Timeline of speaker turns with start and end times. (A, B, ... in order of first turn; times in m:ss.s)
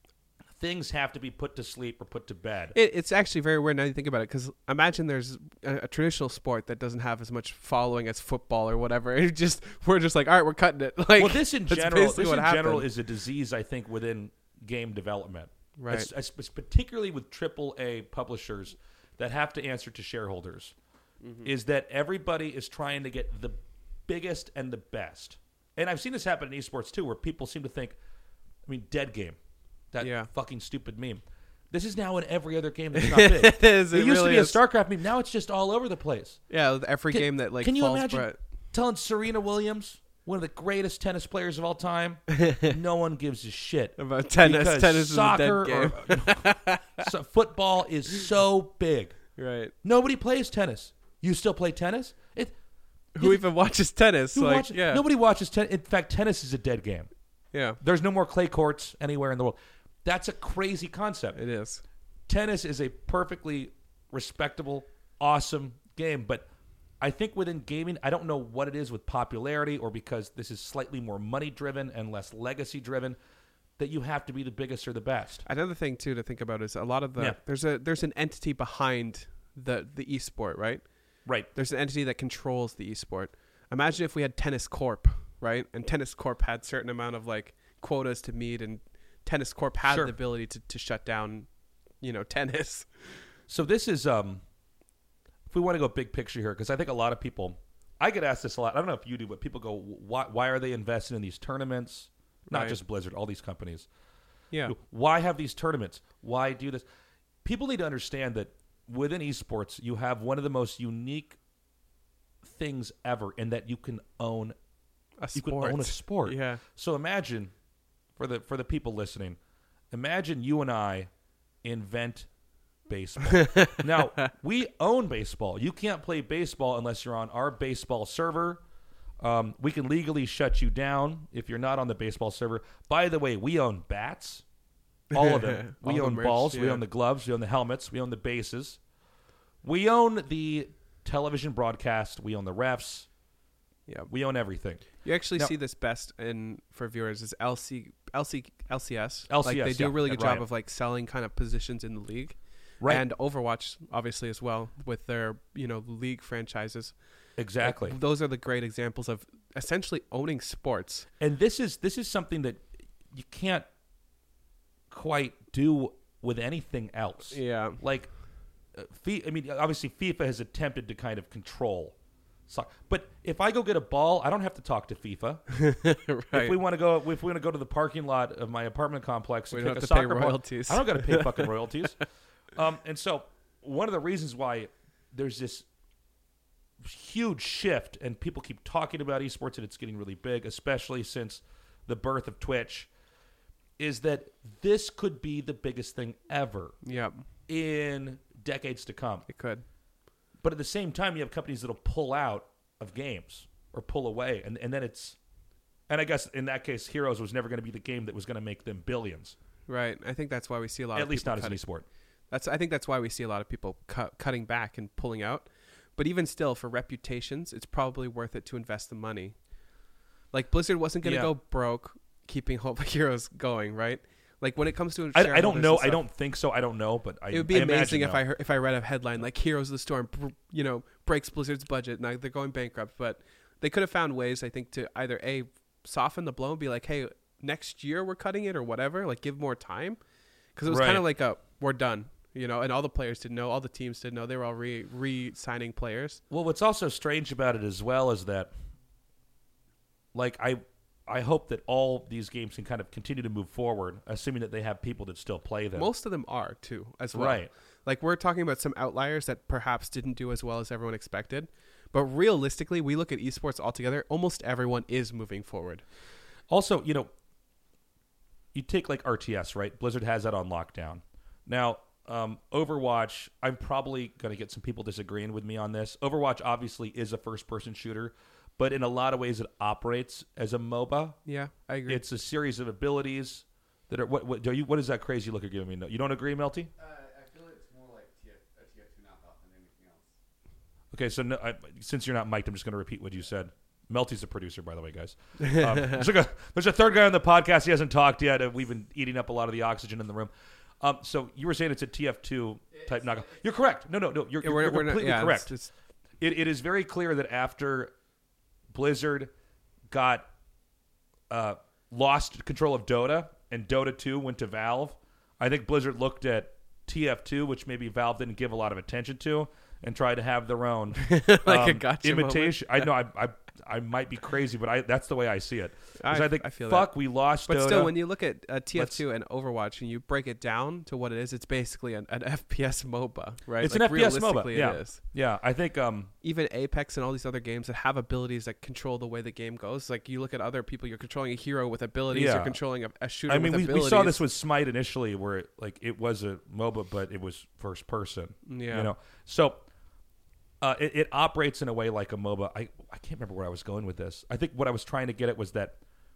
0:00.5-0:02.7 A
0:02.7-0:12.9 B
0:11.2-0:20.7 A
0:15.8-0:16.1 B
0:21.2-0:21.5 B
0:21.4-0:28.0 A
0:28.6-0:29.4 A
0:29.9-0:36.4 A
0:30.0-0:30.3 B
0:32.9-0:34.6 B
0:36.5-0:38.4 B
0:37.1-0:49.2 A
0:42.4-0:42.7 B
0:44.0-0:47.1 B
0:49.4-0:49.7 B
0:49.8-0:52.5 A
0:53.2-0:55.0 B
0:54.3-0:57.1 A
0:57.5-0:57.8 B
0:57.8-1:01.4 A
1:01.3-1:01.8 B
1:02.3-1:06.5 A
1:07.0-1:13.2 A
1:13.8-1:15.4 A
1:15.4-1:20.8 B
1:21.5-1:31.5 B
1:29.8-1:30.1 A
1:32.0-1:33.1 B
1:33.5-1:34.4 A
1:35.5-1:43.9 A
1:42.5-1:42.8 B
1:44.7-1:46.8 A
1:47.4-1:51.4 A
1:52.4-1:54.6 A
1:55.2-1:56.6 B
1:55.3-1:57.5 A
1:58.2-1:59.4 A
1:59.9-2:01.1 A
2:01.6-2:02.3 A
2:02.9-2:08.6 A
2:03.3-2:04.3 B
2:09.2-2:14.4 A
2:15.1-2:18.8 A
2:15.1-2:16.8 B
2:19.6-2:23.1 A
2:24.1-2:25.5 A
2:25.0-2:36.9 B
2:29.3-2:30.4 A
2:37.4-2:38.0 A
2:37.6-2:41.1 B
2:41.2-2:43.6 A
2:44.9-2:48.1 A
2:47.3-2:47.8 B
2:48.7-2:51.9 A
2:52.5-2:55.4 A
2:55.5-2:56.6 B
2:56.3-3:02.0 A
2:59.5-3:01.5 B
3:02.5-3:05.6 A
3:06.8-3:12.9 A
3:13.8-3:16.8 A
3:16.8-3:17.2 B
3:17.5-3:19.2 A
3:19.3-3:19.6 B
3:20.4-3:25.2 A
3:25.9-3:29.4 A
3:29.7-3:31.6 B
3:30.9-3:31.8 A
3:32.3-3:39.4 B
3:40.3-3:46.0 B
3:41.0-3:41.3 A
3:45.1-3:48.2 A
3:47.3-4:00.0 B
4:00.6-4:06.2 B
4:00.7-4:01.0 A
4:06.3-4:08.5 A
4:10.1-4:15.9 A
4:15.8-4:25.8 B
4:17.1-4:17.5 A
4:26.5-4:27.1 A
4:28.5-4:41.2 A
4:41.2-4:42.0 B
4:41.9-4:46.7 A
4:46.8-4:50.1 C
4:50.9-5:00.3 A
4:55.4-4:56.0 B
5:00.8-5:05.5 A
5:02.8-5:03.3 C
5:04.4-5:05.7 B
5:06.2-5:07.9 A
5:08.7-5:09.3 A
5:09.9-5:10.3 A
5:11.3-5:27.9 A
5:21.0-5:22.9 B
5:26.0-5:26.9 B
5:27.5-5:35.0 B
5:28.7-5:29.0 A
5:33.6-5:36.1 A
5:36.2-5:44.2 B
5:42.1-5:42.6 A
5:43.3-5:49.6 A
5:48.4-5:48.9 B
5:50.6-5:55.8 A